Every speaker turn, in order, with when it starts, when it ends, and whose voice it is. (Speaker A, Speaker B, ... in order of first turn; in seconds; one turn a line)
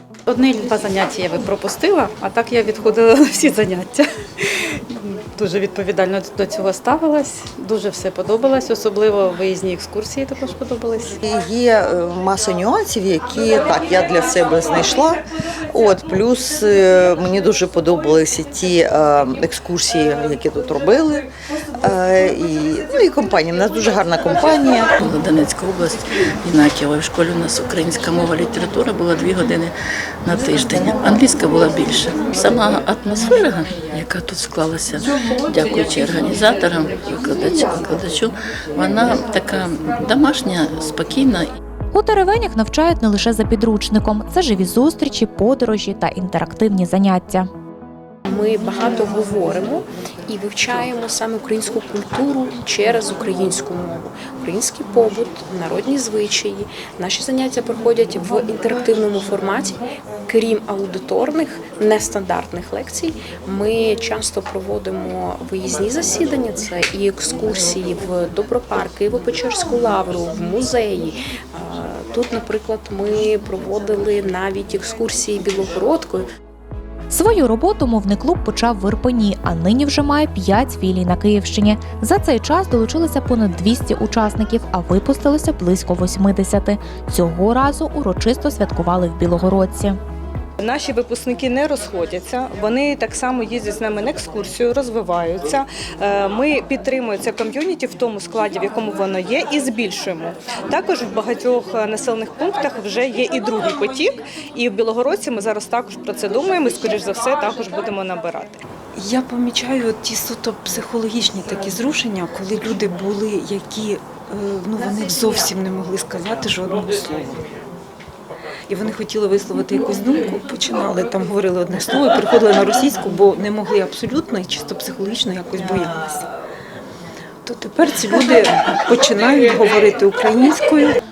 Speaker A: 0.2-11.2
Speaker B: 11.2-21.2
Speaker B: 21.8-24.9
Speaker C: 25.0-29.7
Speaker C: 30.2-41.4
Speaker D: 41.9-47.5
Speaker E: 48.2-76.2
Speaker D: 77.1-90.0
Speaker F: 90.6-108.6
Speaker G: 109.0-117.4
Speaker G: 118.7-126.2
Speaker G: 127.4-131.0